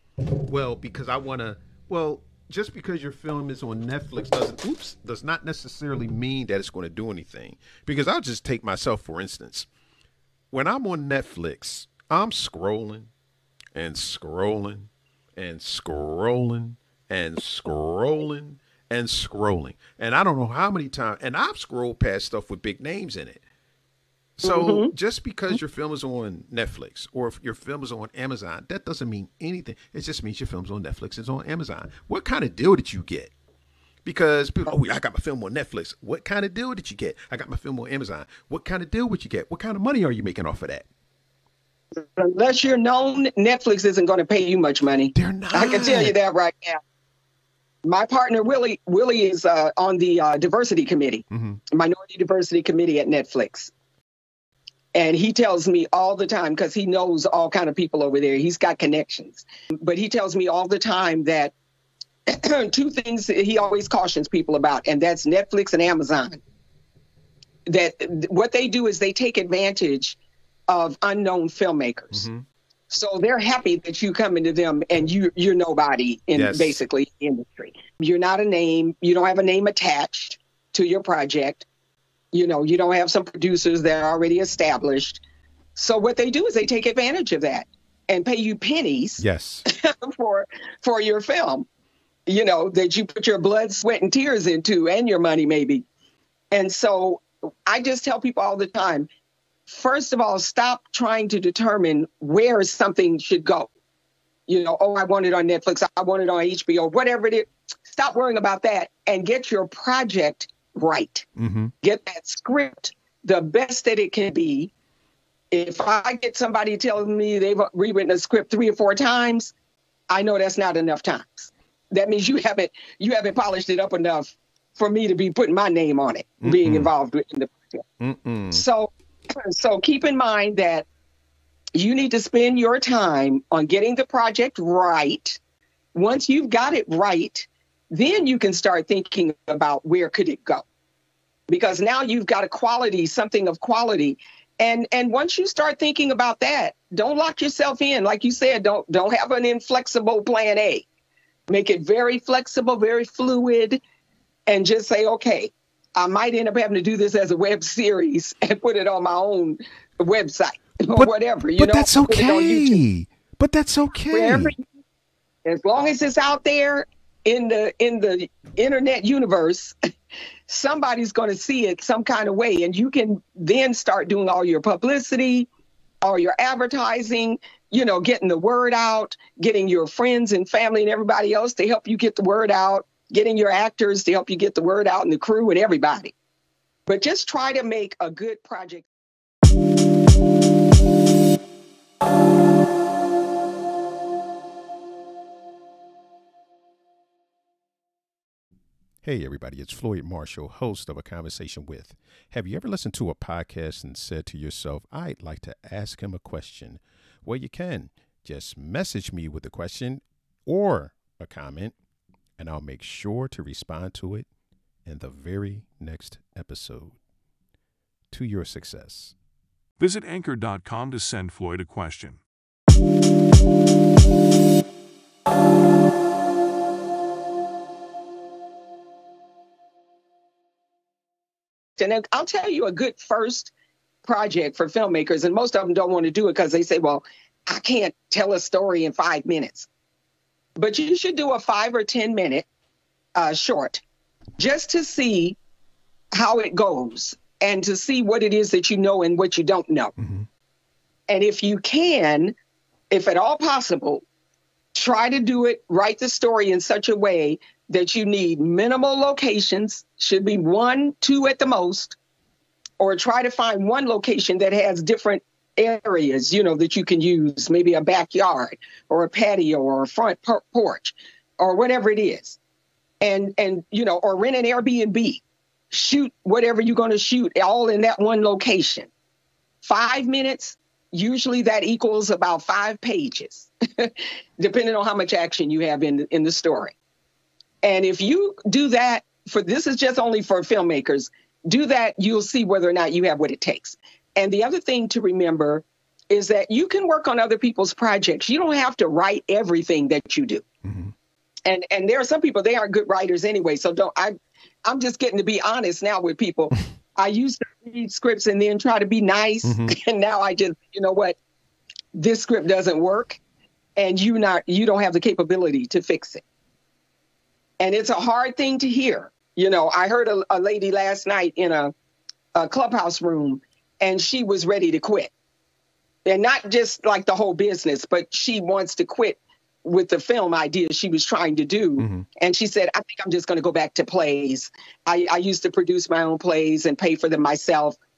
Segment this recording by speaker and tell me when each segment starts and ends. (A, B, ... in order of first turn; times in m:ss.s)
0:00.3-0:09.7 A
0:10.5-0:13.1 A
0:13.7-0:23.4 A
0:24.4-0:33.3 A
0:24.4-0:24.9 B
0:34.0-0:40.9 A
0:41.9-0:46.8 B
0:45.1-0:46.2 A
0:47.8-0:53.7 B
0:51.3-0:51.6 A
0:54.9-1:01.5 B
1:02.3-1:06.4 B
1:07.6-1:10.2 B
1:10.7-1:12.2 B
1:12.1-1:12.4 A
1:12.9-1:21.6 B
1:16.3-1:16.8 A
1:22.3-1:25.2 B
1:25.8-1:31.6 B
1:29.2-1:29.6 A
1:32.2-1:35.8 B
1:36.5-1:39.1 B
1:39.7-1:43.7 B
1:44.5-1:51.2 B
1:51.4-1:51.7 A
1:51.8-1:54.7 B
1:55.5-1:59.5 B
2:00.1-2:07.8 B
2:06.4-2:06.9 A
2:08.0-2:08.6 A
2:08.5-2:10.8 B
2:11.8-2:15.4 B
2:15.9-2:20.6 B
2:21.5-2:30.8 B
2:31.5-2:33.8 B
2:34.5-2:42.8 B
2:40.9-2:44.5 A
2:44.1-2:44.7 B
2:45.4-2:49.7 B
2:50.5-2:55.5 B
2:56.0-3:06.1 B
3:06.8-3:08.9 B
3:19.0-3:31.7 A
3:32.4-3:34.3 A
3:34.8-3:37.0 A
3:38.1-3:39.1 A
3:39.8-3:42.2 C
3:51.8-3:53.5 B
3:54.0-3:59.7 B
4:00.6-4:02.4 B
4:03.2-4:03.8 B
4:04.4-4:05.4 B
4:06.2-4:09.9 B
4:10.0-4:10.2 A
4:11.1-4:12.3 B
4:12.9-4:14.0 B
4:14.7-4:22.0 B
4:22.8-4:32.4 B
4:33.0-4:38.9 B
4:39.6-4:46.7 B
4:47.6-5:00.4 B
5:00.6-5:00.9 A
5:01.4-5:11.2 B
5:09.4-5:09.7 A
5:11.9-5:13.2 B
5:13.8-5:16.2 B
5:17.6-5:21.7 B
5:22.3-5:25.1 B
5:26.0-5:37.8 B
5:31.8-5:32.0 A